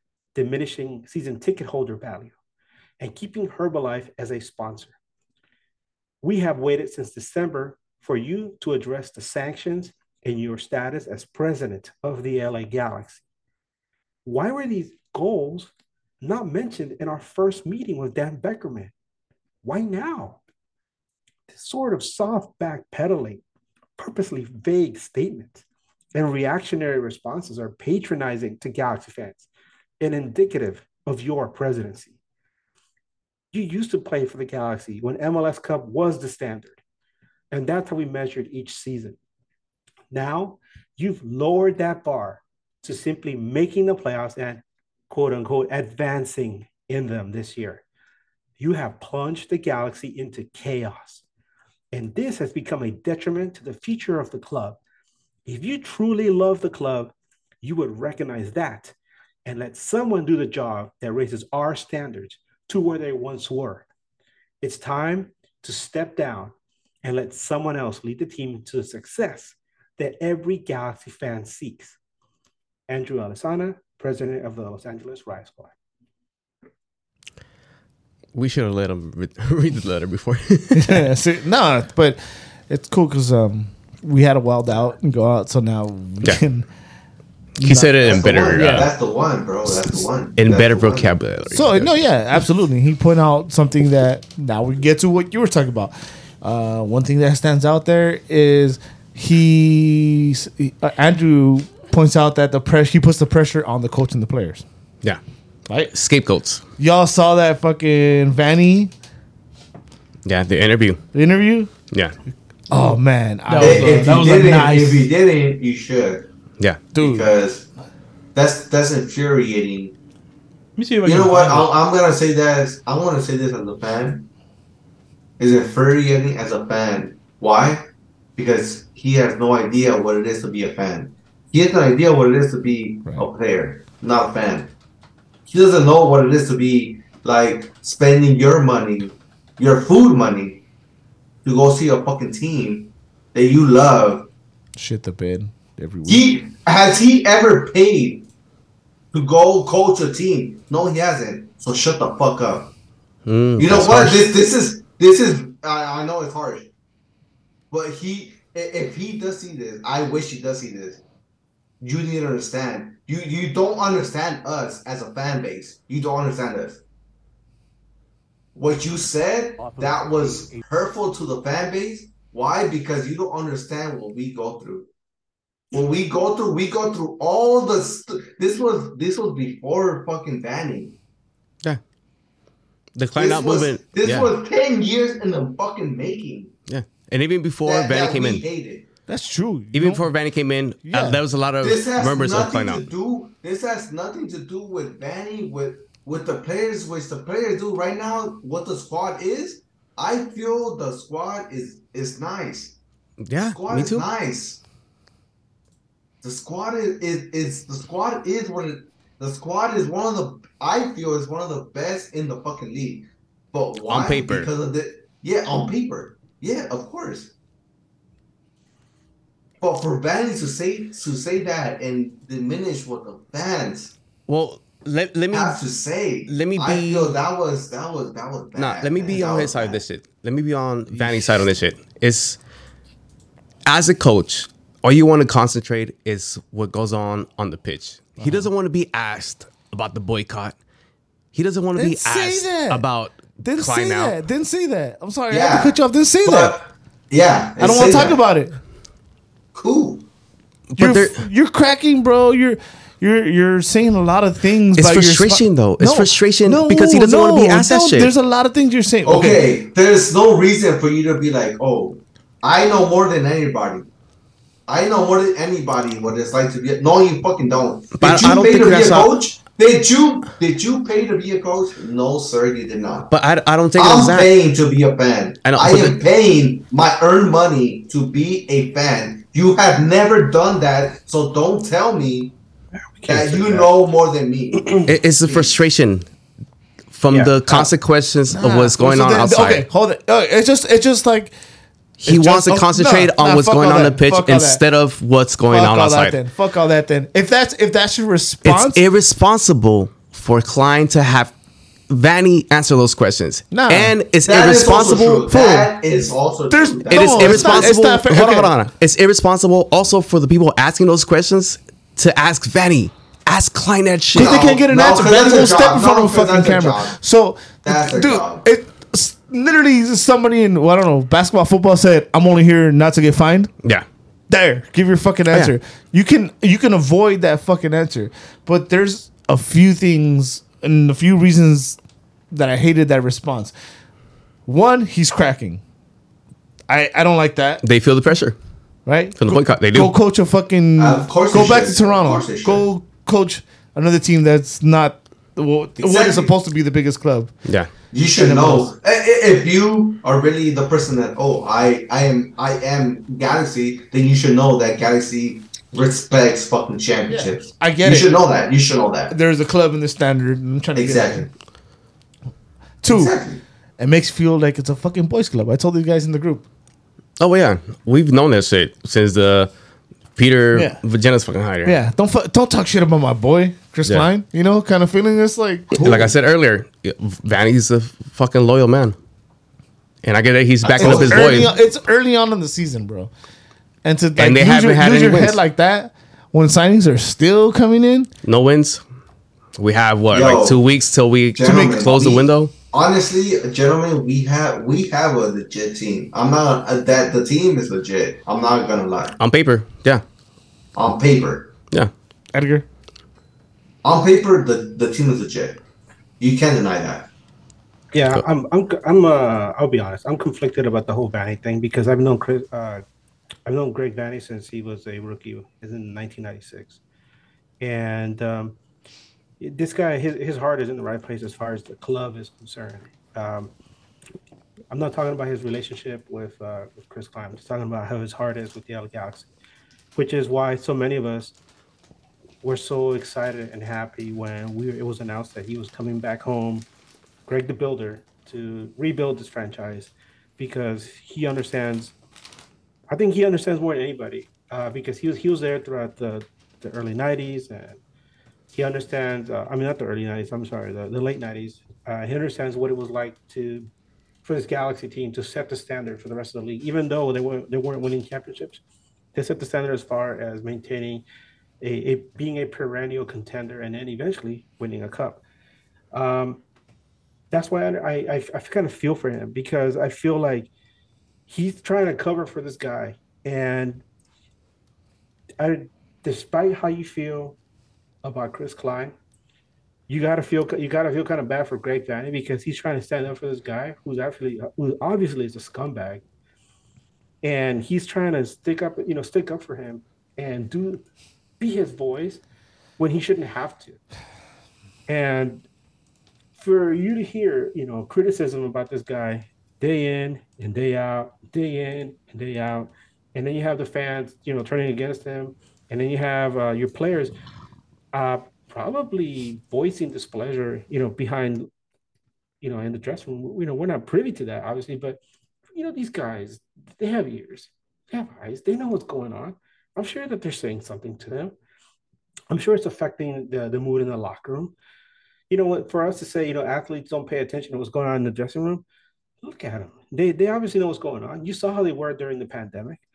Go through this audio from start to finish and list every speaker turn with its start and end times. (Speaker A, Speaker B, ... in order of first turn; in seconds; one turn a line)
Speaker A: 0.3-2.4
Speaker A: 3.0-5.0
Speaker A: 6.2-13.2
Speaker A: 14.2-15.7
Speaker A: 16.2-18.9
Speaker A: 19.6-20.4
Speaker A: 21.5-23.4
Speaker A: 24.0-29.5
Speaker A: 30.0-32.1
Speaker A: 33.5-36.8
Speaker A: 37.5-39.2
Speaker A: 40.1-47.8
Speaker A: 48.6-51.2
Speaker A: 51.9-54.8
Speaker A: 55.5-58.9
Speaker A: 59.5-63.9
Speaker A: 64.6-72.0
Speaker A: 72.9-75.7
Speaker B: 78.3-81.1
Speaker C: 80.8-86.7
Speaker C: 87.6-88.9
Speaker B: 87.6-88.9
Speaker D: 88.0-91.2
Speaker B: 90.4-91.9
Speaker C: 91.5-104.6
Speaker B: 105.9-106.6
Speaker C: 106.8-108.9
Speaker B: 110.2-111.0
Speaker C: 111.1-111.7
Speaker C: 112.7-114.8
Speaker E: 113.5-115.0
Speaker D: 113.6-116.3
Speaker C: 116.9-117.3
Speaker D: 117.0-117.7
Speaker D: 118.3-119.9
Speaker E: 120.8-121.7
Speaker D: 121.0-124.3
Speaker D: 125.4-134.7
Speaker D: 135.5-140.6
Speaker D: 141.4-144.3
Speaker C: 144.8-146.4
Speaker D: 146.1-148.3
Speaker D: 149.1-152.7
Speaker B: 153.3-154.3
Speaker D: 153.6-156.7
Speaker D: 157.7-161.0
Speaker D: 161.8-166.8
Speaker D: 168.6-174.9
Speaker A: 169.6-170.6
Speaker D: 175.7-180.9
Speaker B: 182.9-184.3
Speaker D: 183.2-186.5
Speaker B: 186.7-188.5
Speaker D: 187.6-188.8
Speaker C: 189.1-190.1
Speaker B: 189.7-192.9
Speaker C: 190.9-191.2
Speaker D: 191.6-202.8
Speaker B: 203.2-204.1
Speaker D: 203.5-204.6
Speaker D: 206.2-217.3
Speaker B: 213.9-214.5
Speaker D: 219.6-223.9
Speaker B: 224.3-225.6
Speaker D: 225.3-229.8
Speaker B: 226.3-227.2
Speaker B: 228.6-232.4
Speaker B: 233.7-240.6
Speaker C: 238.2-238.5
Speaker B: 241.3-244.2
Speaker C: 241.8-242.8
Speaker C: 243.4-246.6
Speaker D: 245.3-248.2
Speaker C: 247.6-248.6
Speaker D: 249.6-250.1
Speaker B: 250.7-251.2
Speaker C: 250.8-259.4
Speaker B: 254.8-258.1
Speaker D: 259.1-263.9
Speaker D: 264.7-273.1
Speaker B: 268.0-269.1
Speaker B: 273.1-274.3
Speaker D: 273.8-282.4
Speaker B: 275.4-276.0
Speaker A: 283.0-283.7
Speaker D: 283.1-284.9
Speaker A: 284.5-284.9
Speaker B: 284.9-286.1
Speaker B: 286.9-289.7
Speaker A: 287.1-287.4
Speaker C: 288.3-291.3
Speaker C: 292.0-294.6
Speaker B: 292.0-296.2
Speaker C: 295.5-298.8
Speaker B: 298.4-301.3
Speaker B: 301.9-305.7
Speaker C: 303.5-303.9
Speaker D: 304.3-307.7
Speaker C: 306.5-308.5
Speaker B: 306.9-314.5
Speaker D: 314.1-316.9
Speaker C: 314.1-323.5
Speaker D: 317.6-318.4
Speaker C: 324.3-331.8
Speaker C: 332.3-333.5
Speaker C: 334.5-335.6
Speaker C: 336.7-337.6
Speaker B: 337.6-338.4
Speaker C: 338.9-347.3
Speaker B: 339.2-339.9
Speaker D: 340.8-342.7
Speaker D: 345.8-346.3
Speaker B: 347.4-347.7
Speaker D: 347.9-359.1
Speaker C: 348.3-348.6
Speaker C: 357.1-358.1
Speaker C: 359.1-361.3
Speaker D: 360.8-361.3
Speaker C: 362.8-363.1
Speaker D: 362.9-363.4
Speaker C: 363.8-366.4
Speaker B: 367.2-369.5
Speaker B: 370.2-371.8
Speaker C: 370.5-370.8
Speaker C: 371.6-375.8
Speaker D: 375.8-376.1
Speaker B: 375.8-379.0
Speaker B: 380.0-381.5
Speaker C: 380.7-383.1
Speaker D: 380.7-381.5
Speaker C: 383.9-388.1
Speaker B: 384.2-385.4
Speaker B: 388.2-388.8
Speaker B: 389.6-392.5
Speaker D: 390.1-390.6
Speaker D: 391.4-399.2
Speaker C: 391.4-391.8
Speaker B: 399.2-400.0
Speaker D: 400.8-401.5
Speaker C: 402.3-402.6
Speaker D: 403.8-405.6
Speaker D: 406.2-407.1
Speaker A: 407.9-412.8
Speaker A: 413.5-416.8
Speaker A: 417.6-418.6
Speaker A: 419.4-423.5
Speaker A: 424.7-429.3
Speaker A: 430.0-431.4
Speaker A: 432.4-436.7
Speaker A: 437.3-441.9
Speaker A: 442.9-447.8
Speaker A: 448.5-453.7
Speaker A: 454.2-458.6
Speaker A: 459.1-461.1
Speaker A: 461.6-465.2
Speaker A: 465.9-466.4
Speaker A: 467.3-470.5
Speaker A: 471.3-473.8
Speaker A: 475.4-477.4
Speaker A: 478.0-478.9
Speaker A: 479.9-486.0
Speaker A: 487.2-490.8
Speaker A: 491.4-492.2
Speaker A: 492.8-493.8
Speaker A: 494.9-495.5
Speaker A: 496.4-507.1
Speaker A: 507.9-511.5
Speaker A: 512.4-515.0
Speaker A: 515.5-521.4
Speaker A: 522.3-524.5
Speaker A: 525.3-528.6
Speaker A: 529.2-532.8